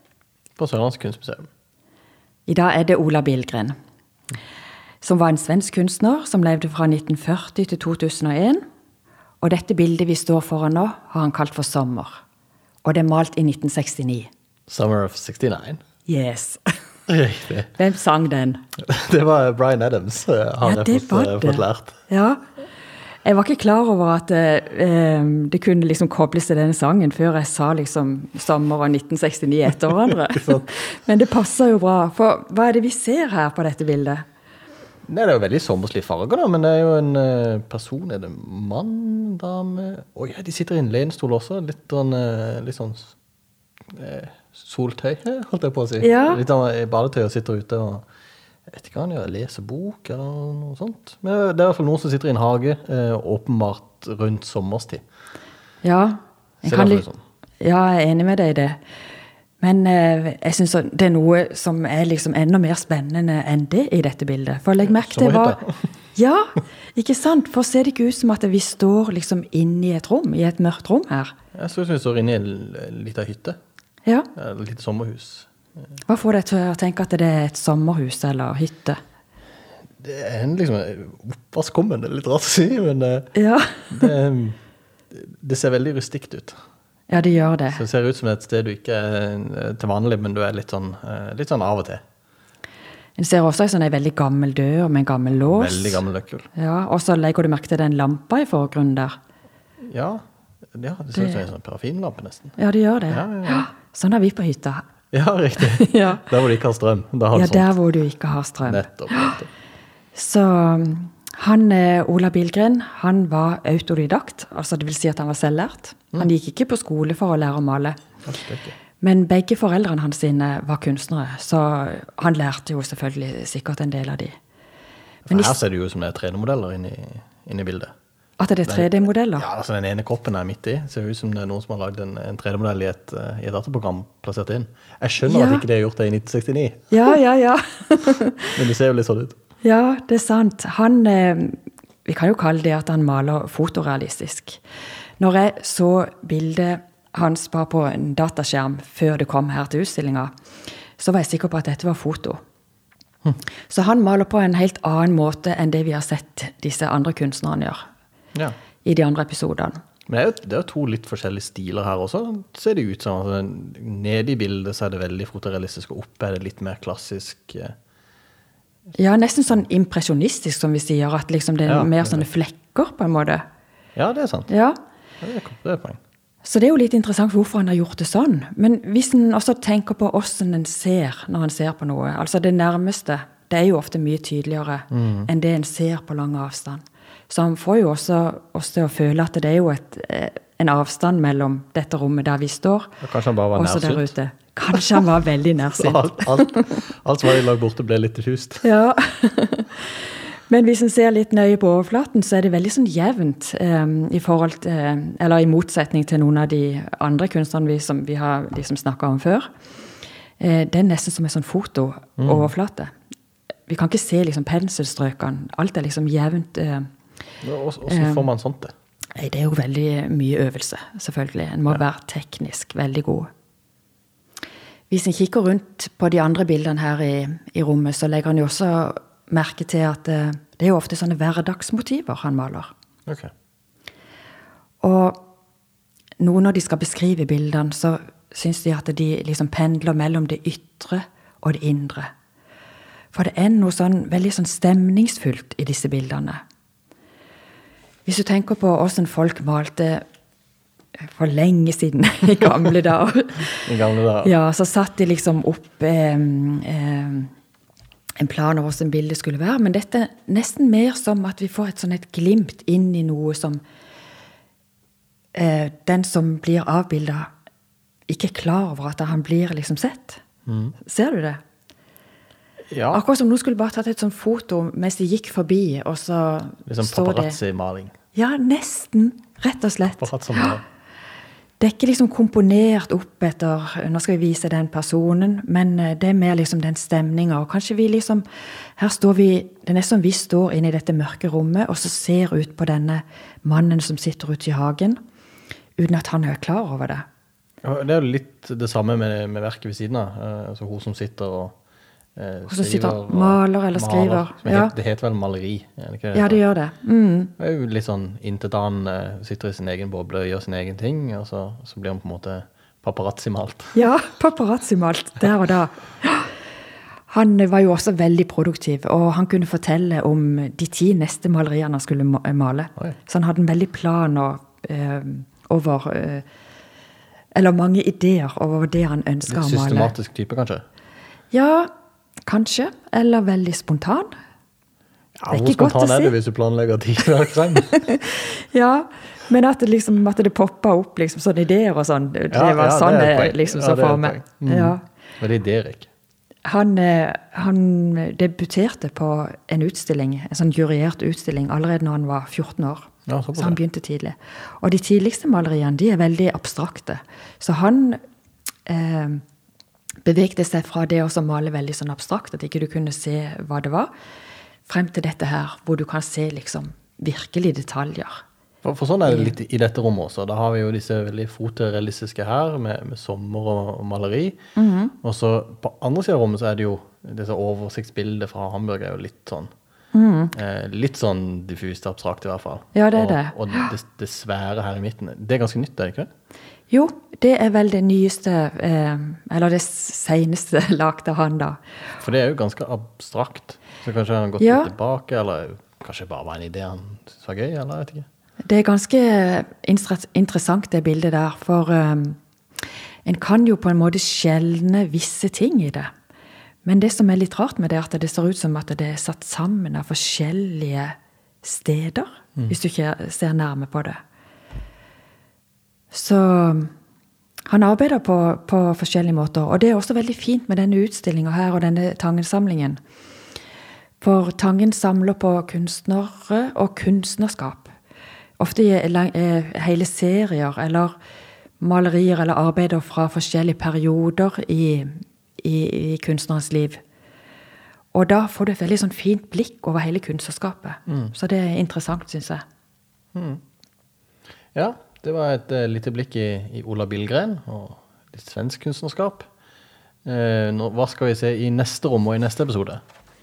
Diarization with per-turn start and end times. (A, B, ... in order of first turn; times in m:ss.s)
0:00.6-0:01.5 A
0:02.5-0:03.8 B
0:05.0-0:08.6 B
0:09.4-0:12.2 B
0:12.8-0:14.3 B
0:14.7-0:15.8 A
0:16.1-0:16.6 B
0:17.1-0:17.7 A
0:17.8-0:18.6 B
0:18.8-0:22.0 A
0:20.6-0:22.4 B
0:23.2-0:34.2 B
0:30.3-0:30.6 A
0:35.1-0:43.1 A
0:43.9-0:48.0 A
0:46.0-0:46.4 B
0:48.7-0:55.0 A
0:55.8-0:57.1 B
0:56.6-0:57.2 A
0:57.6-0:58.8 B
0:59.6-1:05.6 B
1:04.8-1:05.8 A
1:06.2-1:11.3 B
1:11.5-1:13.6 A
1:14.4-1:15.5 A
1:16.1-1:19.0 B
1:20.0-1:23.3 A
1:23.4-1:24.1 B
1:23.9-1:24.6 A
1:25.1-1:26.6 A
1:27.1-1:27.8 B
1:27.7-1:32.0 A
1:33.2-1:36.0 B
1:35.5-1:36.5 A
1:36.6-1:39.2 B
1:39.9-1:40.2 A
1:40.7-1:42.6 A
1:41.2-1:41.4 B
1:42.6-1:44.8 B
1:43.1-1:43.7 A
1:45.1-1:47.7 A
1:45.6-1:46.2 B
1:47.3-1:49.4 B
1:48.6-1:49.5 A
1:50.2-1:58.0 B
1:58.2-1:58.7 A
1:59.0-2:04.4 B
2:05.3-2:07.9 A
2:05.3-2:05.6 B
2:08.4-2:09.5 B
2:08.7-2:17.2 A
2:15.2-2:15.6 B
2:16.9-2:18.5 B
2:18.5-2:19.4 A
2:19.6-2:24.6 B
2:25.2-2:30.3 B
2:31.0-2:32.4 B
2:33.7-2:37.8 B
2:38.8-2:39.8 B
2:40.1-2:47.7 A
2:49.0-2:53.4 B
2:51.7-2:52.2 A
2:54.0-2:54.5 A
2:54.5-2:54.8 B
2:55.2-2:56.0 A
2:56.4-3:13.0 B
3:04.9-3:05.3 A
3:13.0-3:14.1 A
3:13.5-3:16.7 B
3:14.7-3:15.0 A
3:15.8-3:18.7 A
3:18.6-3:19.9 B
3:20.5-3:29.5 B
3:30.4-3:32.9 B
3:32.2-3:32.5 A
3:33.7-3:36.9 B
3:37.4-3:38.7 A
3:37.9-3:38.2 B
3:39.2-3:43.3 B
3:44.9-3:52.7 B
3:54.8-3:55.2 B
3:56.2-4:02.1 B
4:03.1-4:06.4 B
4:08.1-4:10.0 B
4:11.1-4:13.7 B
4:13.6-4:14.4 A
4:14.2-4:17.3 B
4:18.2-4:23.6 B
4:25.3-4:27.3 B
4:28.1-4:30.2 B
4:30.5-4:30.8 A
4:30.8-4:31.4 B
4:32.7-4:33.0 A
4:32.9-4:37.4 B
4:36.7-4:37.9 A
4:38.2-4:40.5 B
4:40.0-4:40.6 A
4:41.6-4:48.2 B
4:48.8-4:55.0 B
4:55.8-4:57.0 B
4:57.6-5:01.6 A
5:02.2-5:06.4 A
5:02.5-5:04.7 B
5:06.1-5:07.3 B
5:07.4-5:13.8 A
5:13.8-5:16.3 B
5:17.1-5:26.2 B
5:27.4-5:29.9 B
5:29.3-5:30.6 A
5:31.3-5:31.7 B
5:32.3-5:34.1 B
5:35.2-5:37.9 A
5:35.3-5:36.1 B
5:37.8-5:44.8 B
5:42.3-5:45.9 A
5:46.4-5:58.0 B
5:53.1-5:53.6 A
5:58.7-5:59.2 B
6:00.0-6:03.9 B
6:04.7-6:08.2 B
6:08.6-6:14.4 A
6:09.1-6:09.3 B
6:14.6-6:14.9 B
6:15.0-6:19.5 A
6:19.9-6:20.3 B
6:20.3-6:26.1 A
6:22.7-6:23.7 B
6:26.7-6:31.6 B
6:32.0-6:38.1 A
6:34.4-6:34.7 B
6:38.5-6:42.2 B
6:43.1-6:45.9 B
6:46.6-6:54.0 B
6:55.9-6:56.7 B
6:57.5-7:02.8 B
7:04.0-7:07.7 B
7:08.4-7:11.0 B
7:11.6-7:16.8 B
7:17.9-7:22.4 B
7:20.9-7:21.1 A
7:23.2-7:23.4 A
7:24.6-7:29.3 A
7:30.0-7:32.8 A